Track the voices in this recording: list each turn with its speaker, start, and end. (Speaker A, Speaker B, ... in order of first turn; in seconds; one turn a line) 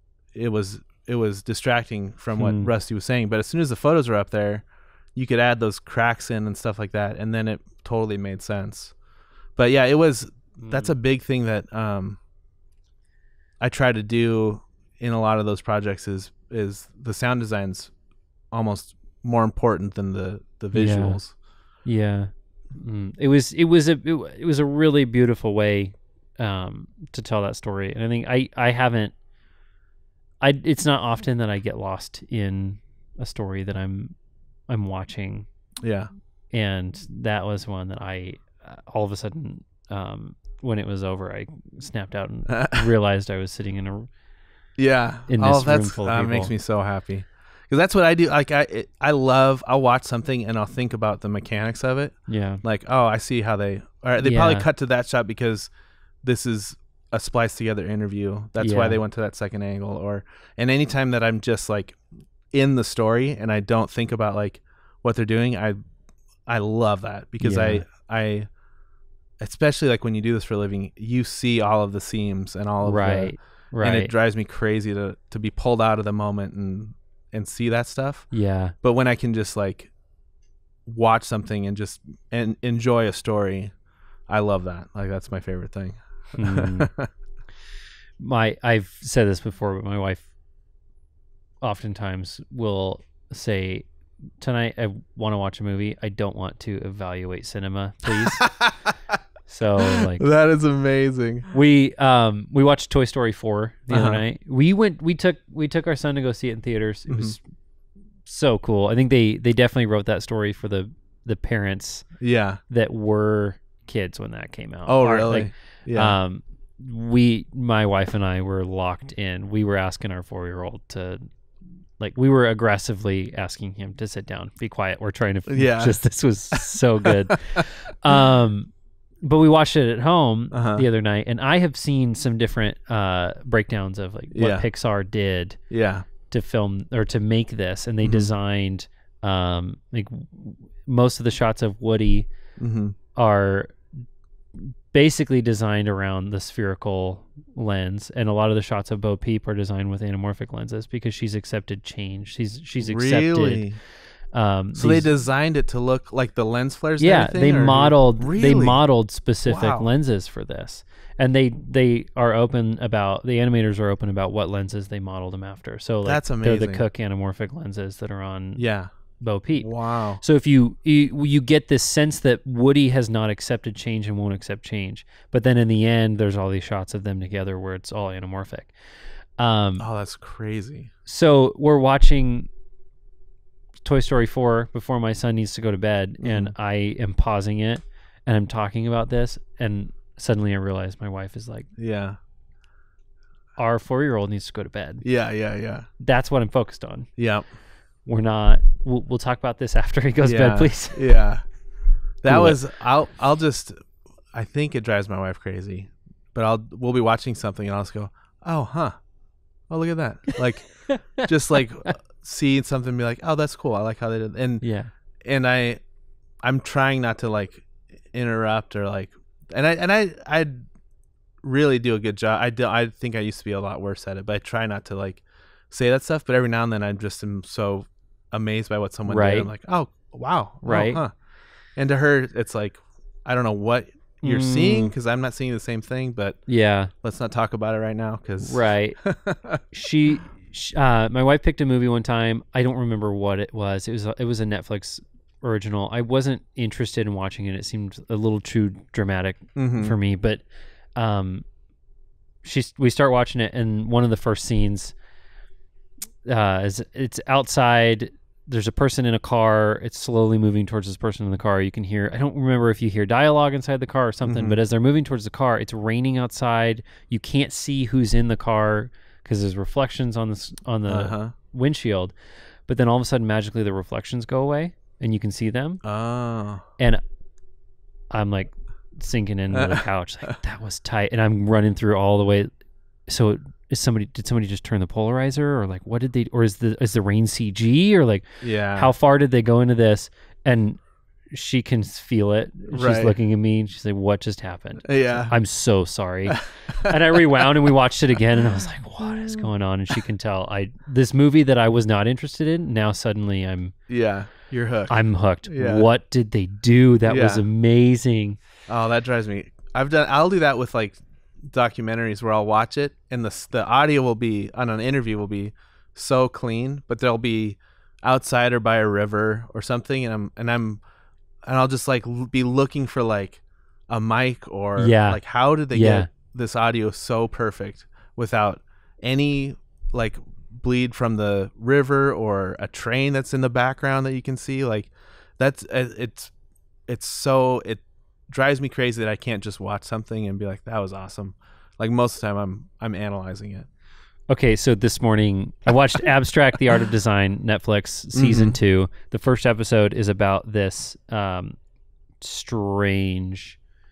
Speaker A: 0.3-8.9
Speaker B: 2.4-2.7
Speaker A: 9.6-12.2
Speaker B: 10.6-10.9
Speaker A: 13.6-17.9
Speaker A: 18.5-21.3
Speaker B: 20.7-21.2
Speaker B: 21.8-29.1
Speaker B: 30.4-34.1
Speaker B: 34.7-35.5
Speaker A: 35.8-36.1
Speaker B: 36.5-44.1
Speaker A: 42.5-42.9
Speaker A: 44.8-55.7
Speaker B: 45.3-46.5
Speaker B: 52.3-52.6
Speaker B: 54.2-54.6
Speaker A: 56.2-62.0
Speaker B: 58.6-59.0
Speaker A: 62.5-65.8
Speaker A: 66.5-68.5
Speaker B: 67.4-67.8
Speaker A: 69.4-78.3
Speaker B: 72.8-74.1
Speaker B: 78.3-78.7
Speaker A: 78.8-79.9
Speaker A: 80.8-83.7
Speaker A: 84.3-87.1
Speaker B: 86.3-86.9
Speaker B: 88.2-90.3
Speaker B: 91.6-93.8
Speaker B: 94.4-98.6
Speaker A: 98.4-98.7
Speaker B: 99.5-100.3
Speaker A: 99.9-101.5
Speaker B: 101.5-107.4
Speaker A: 103.9-104.2
Speaker A: 107.1-107.3
Speaker B: 108.2-112.1
Speaker A: 112.2-112.6
Speaker B: 112.7-121.2
Speaker A: 114.9-116.2
Speaker B: 122.0-128.7
Speaker A: 125.5-126.0
Speaker A: 126.5-127.6
Speaker B: 129.2-135.7
Speaker A: 130.5-130.8
Speaker A: 134.3-134.6
Speaker A: 135.7-136.1
Speaker B: 136.3-142.3
Speaker A: 138.0-138.3
Speaker A: 142.6-142.9
Speaker B: 143.1-143.8
Speaker B: 144.5-153.7
Speaker A: 152.8-153.8
Speaker B: 154.3-155.1
Speaker A: 154.8-158.8
Speaker B: 157.0-168.6
Speaker A: 159.4-159.9
Speaker A: 166.0-166.8
Speaker A: 168.6-168.9
Speaker B: 169.2-178.7
Speaker A: 169.5-170.2
Speaker B: 179.4-179.8
Speaker A: 179.8-180.9
Speaker B: 181.1-182.5
Speaker B: 183.8-191.7
Speaker A: 186.2-186.5
Speaker A: 191.8-192.2
Speaker B: 193.6-195.0
Speaker A: 195.0-195.9
Speaker B: 196.0-197.1
Speaker A: 197.2-197.4
Speaker B: 198.1-201.1
Speaker A: 200.2-201.4
Speaker A: 202.2-203.8
Speaker B: 202.3-202.6
Speaker A: 204.3-209.0
Speaker A: 209.7-214.6
Speaker B: 210.9-211.2
Speaker B: 214.6-214.9
Speaker A: 215.2-215.8
Speaker A: 216.4-220.6
Speaker A: 221.4-231.1
Speaker B: 229.1-229.5
Speaker B: 230.6-231.0
Speaker A: 231.8-236.4
Speaker B: 234.2-234.9
Speaker B: 236.5-236.9
Speaker A: 237.0-239.6
Speaker B: 238.4-239.0
Speaker B: 239.7-250.4
Speaker A: 249.6-249.9
Speaker B: 250.9-251.4
Speaker B: 252.4-254.9
Speaker B: 256.2-272.1
Speaker A: 264.2-264.6
Speaker A: 270.9-271.3
Speaker B: 272.7-275.8
Speaker A: 275.8-276.6
Speaker B: 278.1-282.5
Speaker A: 279.5-279.8
Speaker B: 283.1-290.8
Speaker A: 288.4-288.9
Speaker B: 291.3-303.7
Speaker A: 292.7-293.1
Speaker A: 294.8-295.3
Speaker A: 296.3-296.9
Speaker A: 303.9-305.9
Speaker B: 304.9-308.4
Speaker A: 307.1-307.4
Speaker A: 308.7-320.8
Speaker A: 321.4-336.3
Speaker B: 324.8-326.1
Speaker A: 336.9-343.7
Speaker B: 344.3-351.6
Speaker A: 348.1-348.6
Speaker B: 352.2-353.6